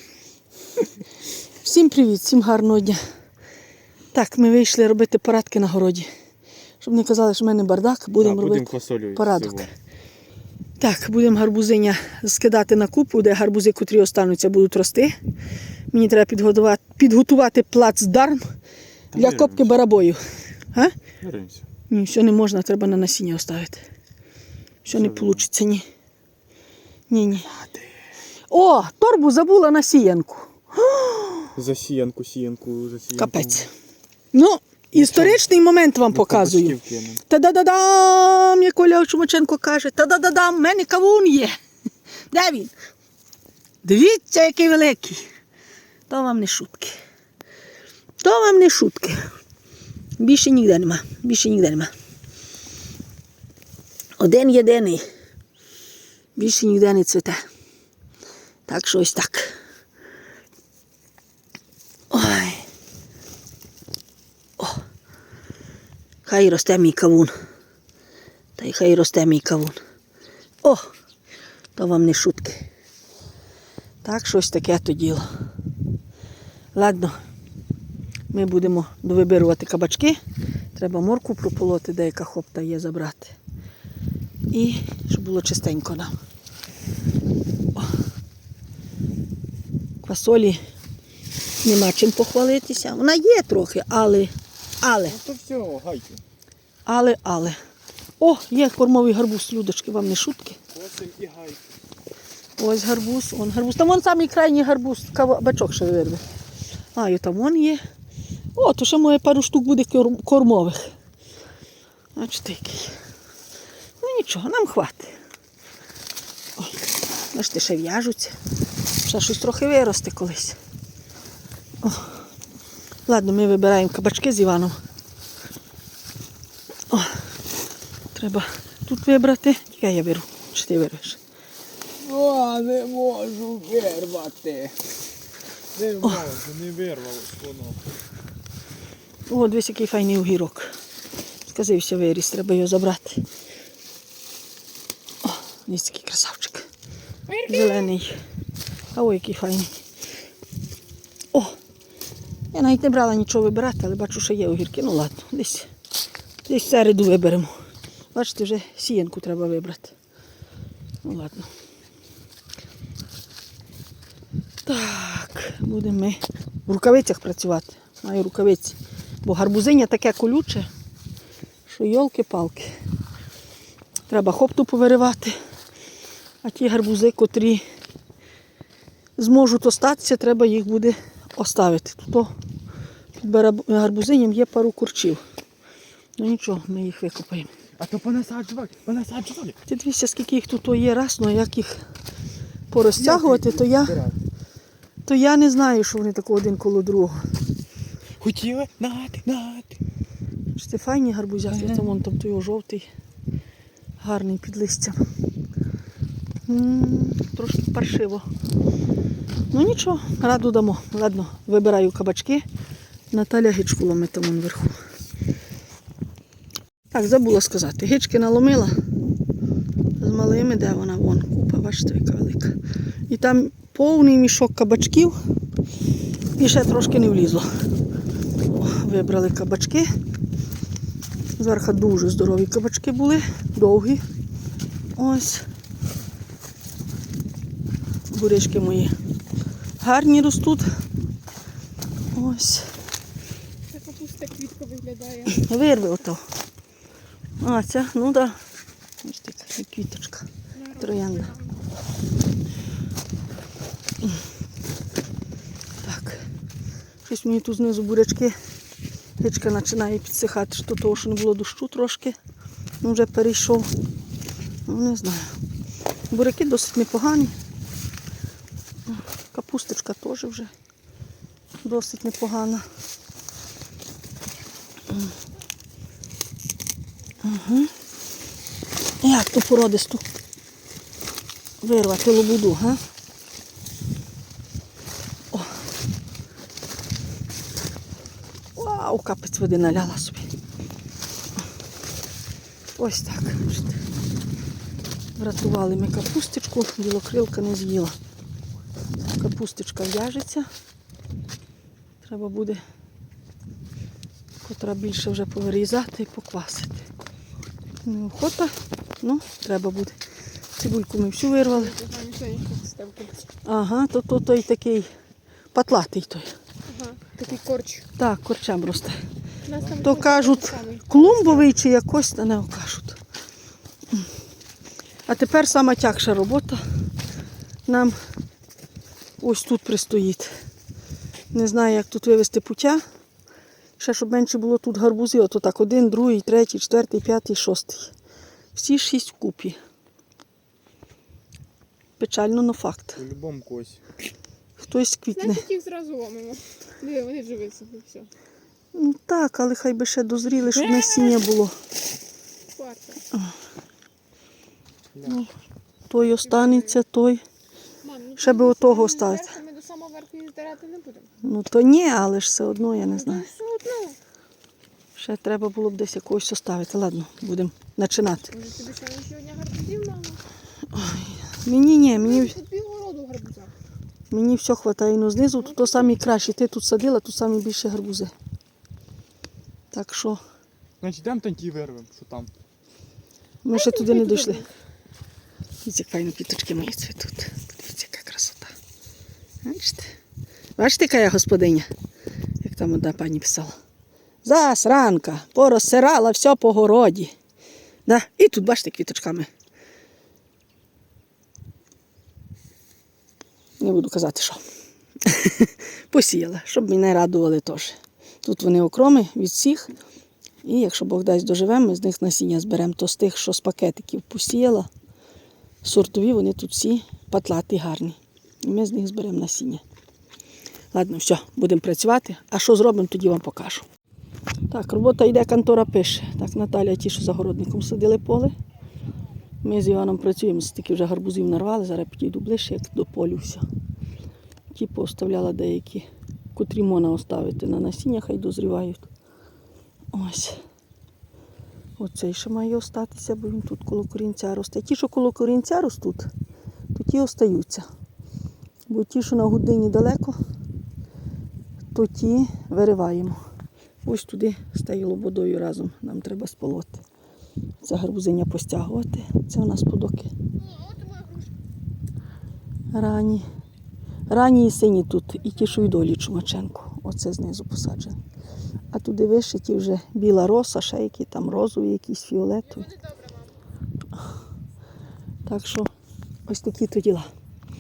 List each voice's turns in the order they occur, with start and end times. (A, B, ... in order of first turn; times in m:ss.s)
0:01.6-0:03.0 A
0:04.1-0:06.1 A
0:06.8-0:09.7 A
0:08.2-0:09.7 B
0:10.8-0:15.2 A
0:15.9-0:18.5 A
0:19.1-0:20.2 A
0:19.1-0:19.7 B
0:21.2-0:21.6 B
0:21.9-0:23.8 A
0:24.8-0:25.9 A
0:24.9-0:25.4 B
0:27.1-0:27.5 A
0:28.5-0:31.5 A
0:31.6-0:33.7 B
0:33.2-0:33.7 A
0:34.3-0:41.6 A
0:35.0-0:35.4 B
0:36.1-0:37.2 B
0:42.3-0:42.7 A
0:43.8-0:45.2 A
0:46.1-0:47.0 A
0:48.2-0:49.2 A
0:50.2-0:51.9 A
0:54.2-0:55.1 A
0:56.4-0:57.4 A
0:58.7-0:59.6 A
1:02.1-1:02.7 A
1:06.2-1:07.3 A
1:08.6-1:09.8 A
1:10.6-1:10.9 A
1:11.8-1:12.7 A
1:14.0-1:15.2 A
1:16.7-1:17.1 A
1:18.3-1:20.2 A
1:20.8-1:23.4 A
1:24.5-1:26.1 A
1:30.0-1:30.6 A
1:31.6-1:35.2 A
1:35.1-1:36.2 B
1:36.9-1:37.6 A
1:38.2-1:40.6 A
1:40.7-1:41.6 B
1:42.6-1:46.2 A
1:46.9-1:47.8 A
1:48.6-1:50.9 A
1:52.2-1:53.0 A
1:54.0-1:55.2 A
1:57.3-1:58.4 A
1:59.0-2:00.6 A
2:01.8-2:02.1 A
2:03.1-2:04.7 A
2:06.9-2:07.2 A
2:08.1-2:11.2 A
2:12.0-2:14.7 B
2:15.8-2:17.8 B
2:19.3-2:20.7 A
2:21.5-2:23.2 A
2:25.2-2:26.7 A
2:27.3-2:27.9 C
2:27.5-2:28.2 A
2:28.9-2:29.7 A
2:32.5-2:35.7 A
2:36.5-2:37.5 A
2:38.1-2:40.0 A
2:41.0-2:41.5 A
2:44.6-2:50.7 A
2:51.7-2:52.7 A
2:54.1-2:55.4 A
2:56.4-2:57.6 A
2:59.2-3:02.3 A
3:03.2-3:05.2 A
3:06.2-3:07.5 A
3:07.8-3:09.6 B
3:09.6-3:11.8 A
3:12.7-3:14.0 A
3:13.0-3:14.2 B
3:15.0-3:17.2 A
3:18.2-3:19.8 B
3:20.5-3:22.9 A
3:21.5-3:22.0 B
3:24.0-3:25.0 A
3:26.5-3:28.3 A
3:29.5-3:32.4 A
3:33.1-3:34.8 A
3:36.9-3:38.7 A
3:40.0-3:45.2 A
3:46.4-3:47.5 A
3:48.5-3:49.9 A
3:51.4-3:54.0 A
3:55.0-3:55.4 A
3:58.1-3:58.9 A
3:59.8-4:00.7 A
4:02.1-4:02.7 A
4:03.7-4:05.5 C
4:05.3-4:06.2 A
4:07.4-4:08.4 A
4:09.0-4:11.3 A
4:10.6-4:11.6 C
4:15.8-4:16.2 A
4:17.0-4:18.4 A
4:19.2-4:22.2 A
4:22.8-4:23.7 A
4:24.7-4:25.4 A
4:26.1-4:27.3 A
4:28.9-4:30.5 A
4:31.6-4:32.6 A
4:37.2-4:37.7 A
4:39.0-4:40.0 A
4:41.6-4:42.8 A
4:48.6-4:50.3 A
4:52.8-4:53.8 A
4:55.2-4:58.0 A
4:59.2-5:00.5 A
5:02.0-5:02.6 A
5:04.4-5:06.9 A
5:07.8-5:10.0 A
5:10.6-5:11.8 A
5:11.4-5:13.3 C
5:13.4-5:14.9 A
5:15.5-5:16.3 A
5:16.7-5:17.8 C
5:18.0-5:19.0 A
5:19.5-5:21.5 C
5:19.8-5:23.0 A
5:25.1-5:26.6 A
5:27.7-5:28.0 A
5:29.2-5:30.3 A
5:31.3-5:32.8 A
5:33.8-5:37.9 A
5:38.6-5:39.6 A
5:42.0-5:43.0 A
5:43.0-5:43.8 B
5:44.6-5:45.4 A
5:45.2-5:48.1 C
5:48.7-5:51.6 A
5:50.6-5:51.2 C
5:52.5-5:53.0 C
5:55.0-5:55.2 B
5:55.9-5:57.2 A
5:56.0-5:56.8 C
5:57.8-6:01.1 C
5:58.2-5:59.3 A
6:01.2-6:03.3 A
6:02.9-6:04.0 C
6:05.0-6:08.3 A
6:08.2-6:10.2 C
6:10.7-6:12.4 A
6:11.9-6:13.5 C
6:14.1-6:18.1 A
6:15.4-6:15.9 C
6:19.7-6:20.2 A
6:20.8-6:22.3 B
6:23.4-6:24.4 A
6:23.5-6:24.5 C
6:25.6-6:28.5 A
6:29.4-6:29.9 A
6:30.6-6:31.7 A
6:32.4-6:33.5 A
6:34.2-6:37.1 A
6:37.9-6:39.3 A
6:43.6-6:44.4 A
6:45.0-6:49.7 A
6:50.4-6:54.7 A
6:55.6-6:59.6 A
7:00.7-7:03.7 A
7:04.5-7:08.3 A
7:09.4-7:13.4 A
7:14.5-7:18.9 A
7:19.9-7:20.4 A
7:21.8-7:26.1 A
7:26.7-7:27.6 A
7:28.7-7:30.2 A
7:31.7-7:33.2 A
7:33.8-7:36.8 A
7:37.6-7:40.1 A
7:40.5-7:41.3 C
7:42.7-7:43.2 A
7:44.1-7:48.0 A
7:48.7-7:52.8 A
7:52.8-7:53.2 C
7:55.2-7:55.7 A
7:56.3-7:57.1 A